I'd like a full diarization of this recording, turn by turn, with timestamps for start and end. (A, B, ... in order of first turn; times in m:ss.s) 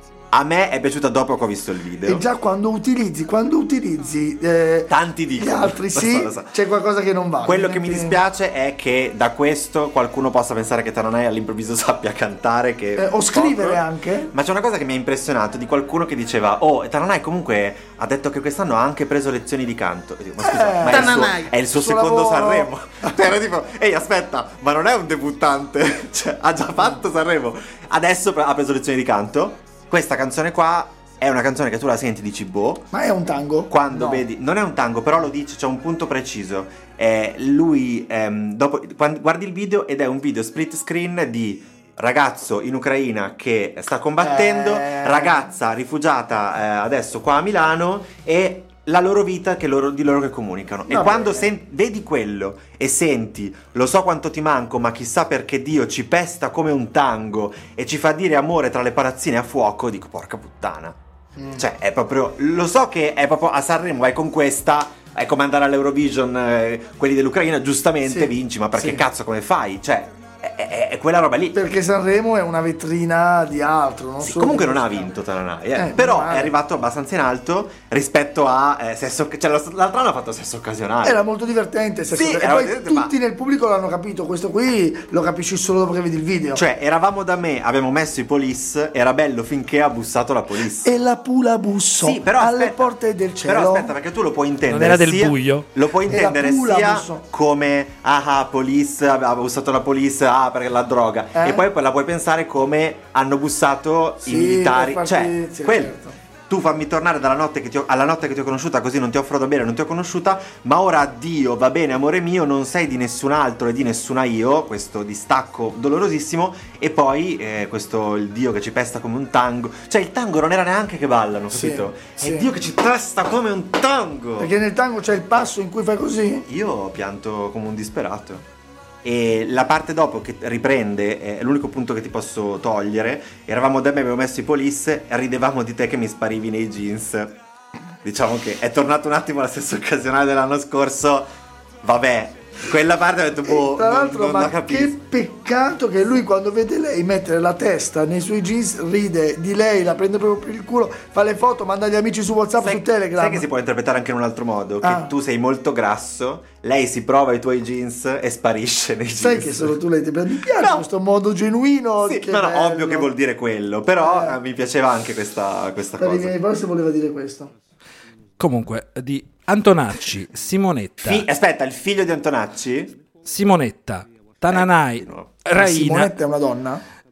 0:00.3-0:02.2 A
0:02.0-0:08.2 B
0:04.9-0:06.5 A
0:07.4-0:32.9 A
0:13.0-0:14.3 B
0:20.4-0:23.1 B
0:32.9-0:34.2 B
0:33.7-1:01.0 A
0:44.2-0:45.5 B
0:50.9-0:51.5 B
1:01.4-1:01.6 B
1:01.6-1:11.6 A
1:08.0-1:09.0 B
1:11.5-1:15.0 B
1:14.2-1:21.2 A
1:15.7-1:16.5 B
1:21.0-1:26.6 B
1:22.1-1:23.1 A
1:26.5-1:30.9 A
1:30.8-1:33.9 B
1:32.0-1:45.9 A
1:34.7-1:35.7 C
1:36.1-1:37.2 B
1:41.3-1:41.6 B
1:44.2-1:46.2 B
1:46.5-2:04.5 A
2:01.5-2:02.5 B
2:04.4-2:06.4 B
2:06.5-2:08.4 A
2:09.0-2:17.4 A
2:18.0-2:21.3 A
2:21.8-2:25.0 A
2:23.4-2:33.4 B
2:32.6-2:39.8 A
2:34.8-2:35.1 B
2:39.2-2:43.1 B
2:40.5-2:40.8 A
2:42.0-2:46.4 A
2:44.0-2:44.4 B
2:46.0-2:47.5 B
2:48.4-2:51.2 C
2:51.0-2:53.0 A
2:53.2-2:56.1 C
2:54.5-2:55.4 A
2:55.5-2:56.8 B